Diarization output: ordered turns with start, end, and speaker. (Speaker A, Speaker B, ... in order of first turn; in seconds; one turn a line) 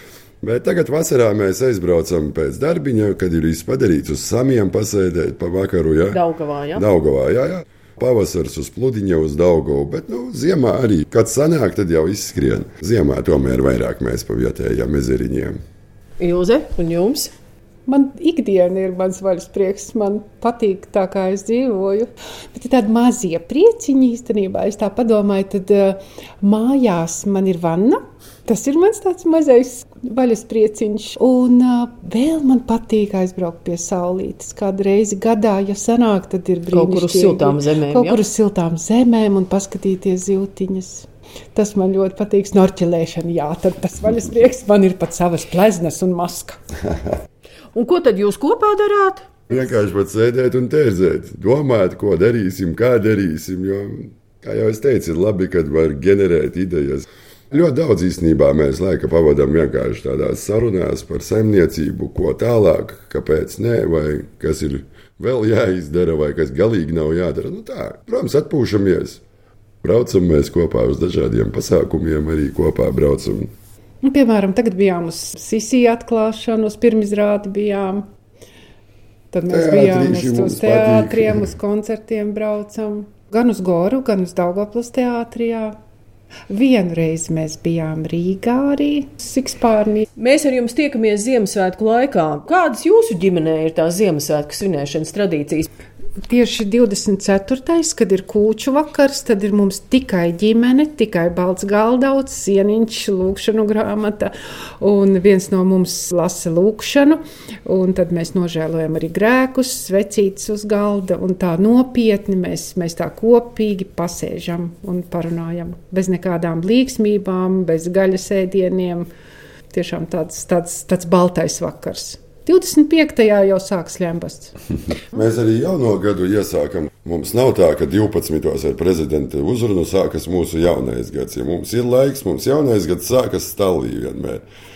Speaker A: 0.4-6.2
Speaker B: 6.1-6.8
Speaker A: 6.7-15.6
Speaker B: 16.2-17.3
Speaker C: 17.9-46.6
Speaker B: 36.7-38.2
Speaker B: 47.7-49.3
Speaker A: 49.5-69.2
Speaker A: 69.8-73.5
Speaker C: 74.0-78.1
Speaker C: 79.3-85.8
Speaker A: 79.5-81.5
Speaker C: 86.5-90.1
Speaker B: 90.2-95.7
Speaker C: 96.3-119.1
Speaker C: 119.7-124.6
Speaker A: 125.1-134.4